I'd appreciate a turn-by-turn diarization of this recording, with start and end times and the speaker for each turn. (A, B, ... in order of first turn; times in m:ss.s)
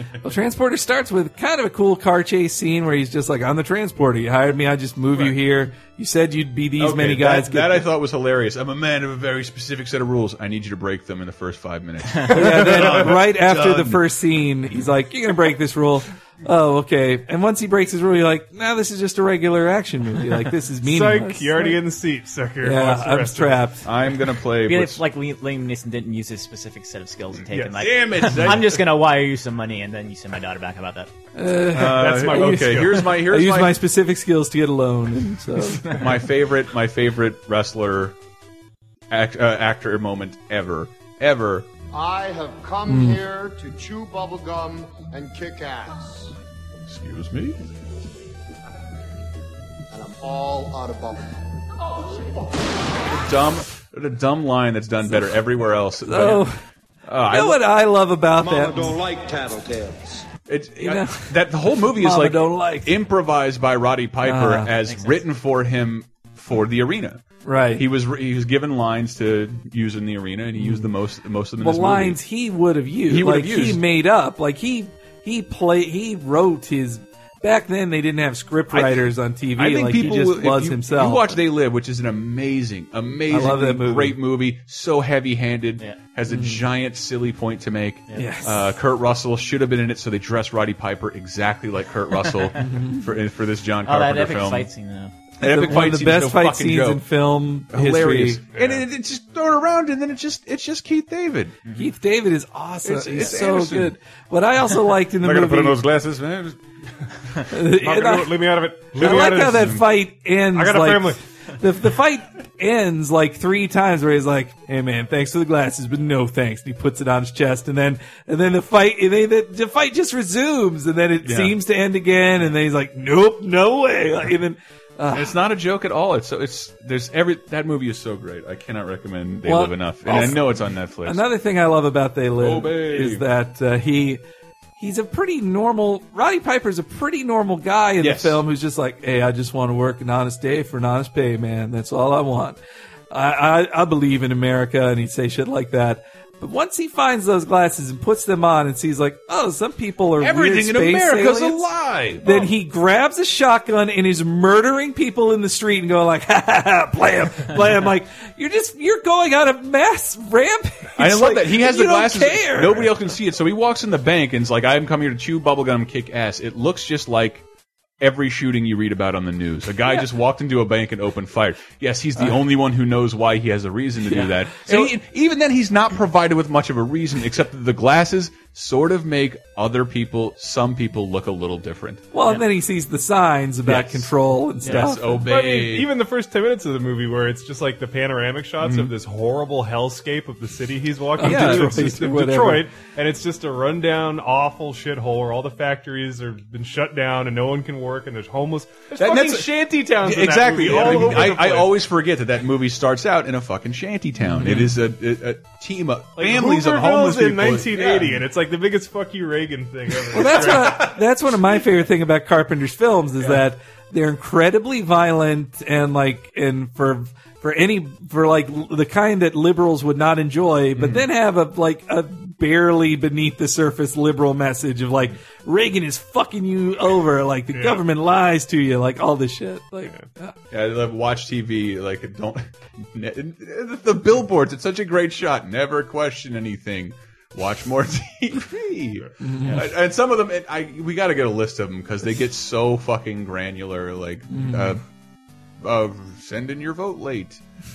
0:00.2-0:07.9 A
0:06.8-0:14.0 B
0:12.3-0:21.8 A
0:12.4-0:13.0 C
0:20.8-0:23.7 C
0:22.6-0:23.8 A
0:23.8-0:25.0 B
0:24.6-0:31.1 D
0:27.5-0:27.9 C
0:27.8-0:28.8 B
0:31.3-0:35.9 A
0:31.7-0:33.8 B
0:31.9-0:33.0 C
0:35.8-0:38.2 B
0:39.1-0:41.7 B
0:41.9-0:46.3 E
0:42.9-0:43.2 A
0:46.9-0:47.6 B
0:49.9-0:51.4 E
0:51.9-0:52.5 E
0:53.1-0:56.5 B
0:56.0-0:56.6 A
0:57.0-0:57.6 B
0:57.3-0:59.0 A
0:58.3-1:00.2 E
1:00.5-1:07.2 B
1:00.8-1:03.0 A
1:04.2-1:04.7 A
1:04.8-1:05.2 D
1:07.4-1:07.8 A
1:07.7-1:12.2 B
1:10.6-1:10.9 A
1:11.6-1:21.4 A
1:13.1-1:13.8 B
1:18.7-1:34.7 B
1:23.3-1:24.2 A
1:26.3-1:26.6 A
1:28.1-1:28.7 A
1:32.6-1:33.1 A
1:33.8-1:35.1 D
1:35.4-1:37.0 B
1:35.4-1:38.4 A
1:37.7-1:41.6 B
1:38.5-1:38.8 C
1:41.7-1:45.8 A
1:42.8-1:43.9 B
1:45.2-1:46.6 B
1:47.5-2:05.4 A
1:47.8-1:49.8 C
1:49.0-1:49.8 B
1:50.5-1:51.2 C
2:01.2-2:01.6 B
2:05.1-2:11.2 B
2:09.4-2:14.2 A
2:12.4-2:13.2 B
2:14.8-2:22.6 A
2:18.0-2:18.4 B
2:23.1-2:31.7 A
2:30.2-2:32.4 B
2:32.2-2:43.1 A
2:41.0-2:47.4 B
2:48.0-3:02.0 B
2:54.1-2:54.8 A
3:02.1-3:05.2 A
3:03.6-3:04.1 B
3:04.6-3:05.9 B
3:05.2-3:21.8 C
3:08.6-3:08.9 B
3:11.2-3:12.7 A
3:11.2-3:11.8 B
3:19.0-3:28.2 B
3:24.4-3:24.7 A
3:26.2-3:30.9 C
3:30.1-3:30.7 B
3:30.1-3:50.3 A
3:40.8-3:41.0 B
3:47.5-3:47.8 C
3:50.5-4:04.8 B
3:59.2-3:59.6 A
4:04.3-4:04.8 A
4:05.6-4:07.4 B